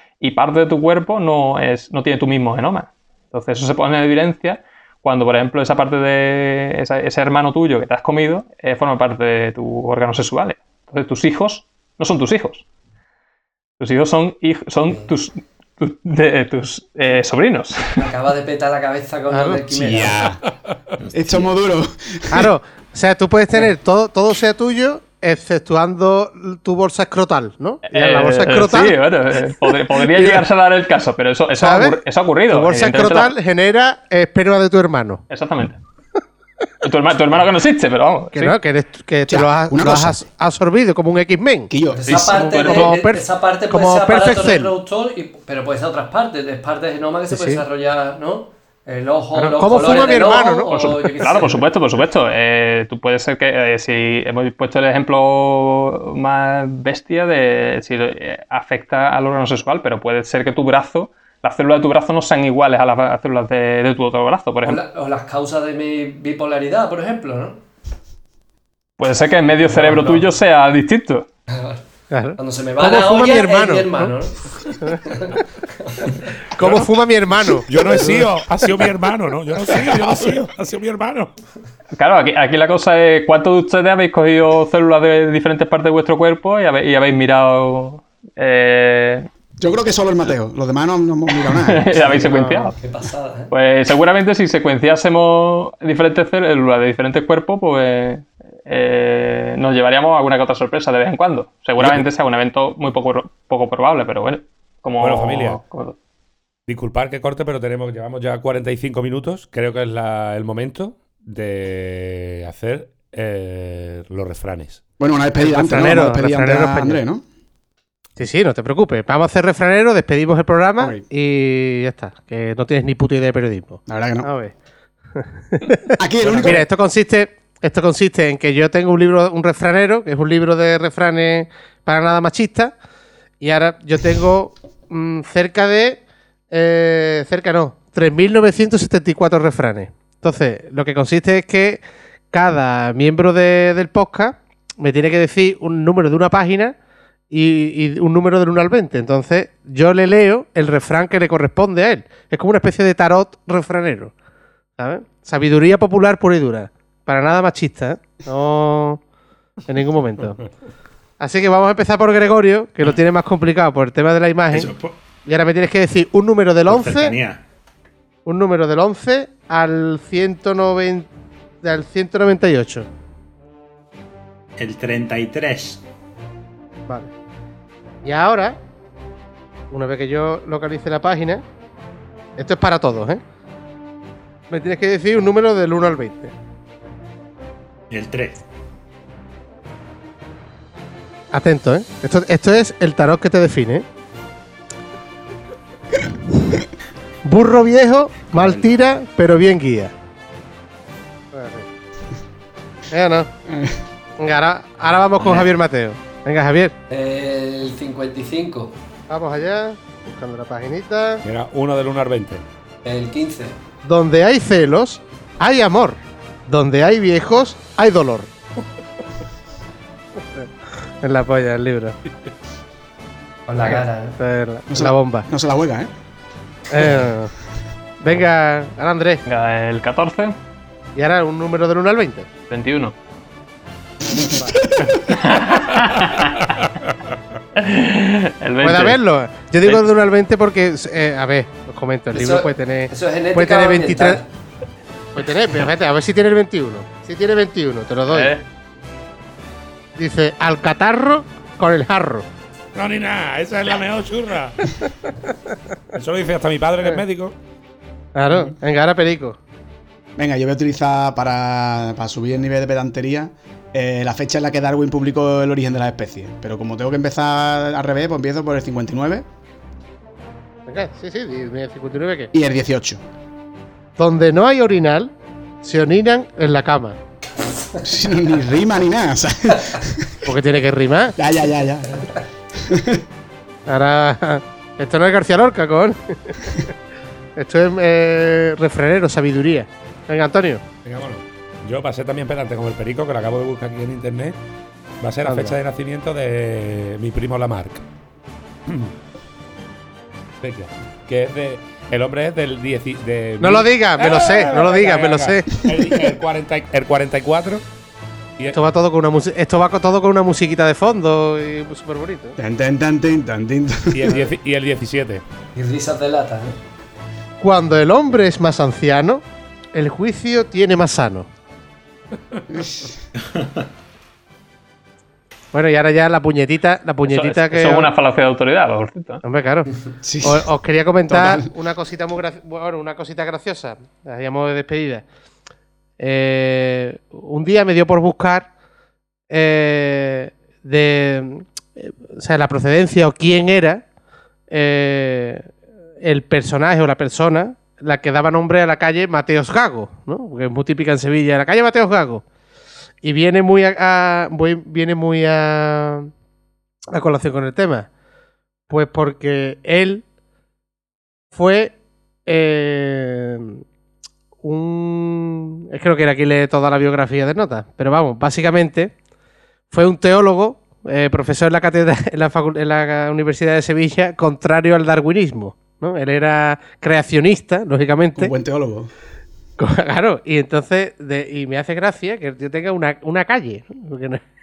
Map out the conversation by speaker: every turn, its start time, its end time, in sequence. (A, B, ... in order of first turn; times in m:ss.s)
0:00.2-0:12.6 A
0:13.8-0:17.9 A
0:18.0-0:20.4 B
0:19.3-0:19.7 C
0:19.7-0:20.4 D
0:21.1-0:22.5 D
0:22.3-0:30.4 C
0:27.9-0:33.3 A
0:31.6-0:32.0 C
0:32.5-0:35.2 C
0:35.3-0:35.8 A
0:36.8-0:38.5 A
0:38.3-0:44.7 C
0:39.3-0:40.2 D
0:41.7-0:42.3 D
0:42.0-0:51.6 B
0:42.5-0:42.9 A
0:47.3-0:47.6 C
0:49.4-0:50.7 C
0:50.7-1:04.8 A
1:04.6-1:07.6 B
1:09.0-1:11.3 A
1:09.7-1:10.3 B
1:11.5-1:11.8 B
1:12.1-1:14.2 C
1:12.4-1:16.2 B
1:16.5-1:18.3 C
1:16.6-1:16.9 E
1:17.7-1:21.3 E
1:22.0-1:29.3 A
1:29.6-1:31.9 D
1:31.4-1:32.8 A
1:32.0-1:33.5 B
1:32.2-1:32.7 C
1:33.5-1:46.0 A
1:41.8-1:42.0 E
1:45.0-1:45.6 E
1:46.7-1:54.8 E
1:55.0-1:57.2 D
1:55.4-1:57.0 C
1:58.2-2:04.5 C
2:00.8-2:01.0 D
2:03.9-2:04.3 D
2:05.1-2:12.7 C
2:06.0-2:06.7 D
2:13.4-2:26.8 C
2:27.3-2:34.1 C
2:34.8-2:39.0 C
2:39.6-2:40.5 C
2:41.2-2:44.7 C
2:44.5-2:45.0 F
2:45.2-2:47.1 C
2:46.7-2:47.4 F
2:48.3-2:51.1 C
2:51.6-2:52.9 C
2:54.6-2:55.8 F
2:58.0-2:58.6 C
2:59.7-3:01.4 C
3:02.4-3:03.2 C
3:04.5-3:06.3 C
3:07.9-3:08.4 F
3:11.3-3:13.8 C
3:17.2-3:19.9 C
3:18.3-3:18.8 F
3:21.3-3:21.7 C
3:22.9-3:23.3 C
3:23.5-3:23.8 D
3:24.2-3:26.7 C
3:25.2-3:25.5 F
3:26.9-3:28.7 B
3:29.1-3:31.2 C
3:31.2-3:32.4 E
3:32.8-3:33.6 B
3:33.8-3:38.3 C
3:41.0-3:42.0 C
3:43.5-3:44.2 B
3:43.6-3:45.3 C
3:44.7-3:45.9 D
3:46.7-3:47.4 C
3:48.0-3:49.2 C
3:49.3-3:50.4 A
3:51.0-3:52.3 C
3:52.5-3:53.0 A
3:54.2-3:55.1 D
3:54.8-3:56.5 A
3:57.6-3:59.0 A
3:58.6-4:04.2 C
4:02.1-4:04.3 B
4:05.2-4:08.3 C
4:08.1-4:08.4 A
4:10.0-4:12.2 C
4:12.8-4:14.8 E
4:15.9-4:17.4 E
4:18.2-4:19.4 C
4:20.2-4:29.2 D
4:30.7-4:32.3 C
4:32.3-4:33.0 D
4:34.0-4:35.1 C
4:35.6-4:37.0 C
4:37.8-4:40.2 D
4:40.2-4:41.2 C
4:41.2-4:43.0 D
4:43.7-4:46.7 C
4:47.4-4:50.6 C
4:50.8-4:54.4 E
4:55.0-4:57.8 E
4:55.2-4:55.6 C
4:58.7-4:58.9 E
5:00.4-5:07.6 E
5:03.4-5:05.5 C
5:05.6-5:06.1 D
5:08.5-5:12.4 C
5:12.4-5:14.2 D
5:13.9-5:15.2 E
5:15.6-5:16.6 B
5:17.4-5:19.2 C
5:19.7-5:21.3 C
5:22.5-5:22.9 D
5:25.5-5:27.9 C
5:27.1-5:29.2 A
5:29.2-5:35.0 C
5:30.0-5:30.4 D
5:31.1-5:31.5 D
5:36.0-5:38.5 C
5:39.3-5:43.8 C
5:44.5-5:45.5 C
5:46.0-5:52.2 C
5:53.0-5:56.1 C
5:56.9-5:57.9 C
5:58.7-6:00.0 C
6:01.3-6:03.6 C
6:04.4-6:08.9 C
6:09.7-6:18.3 C
6:18.2-6:18.9 D
6:19.6-6:24.2 C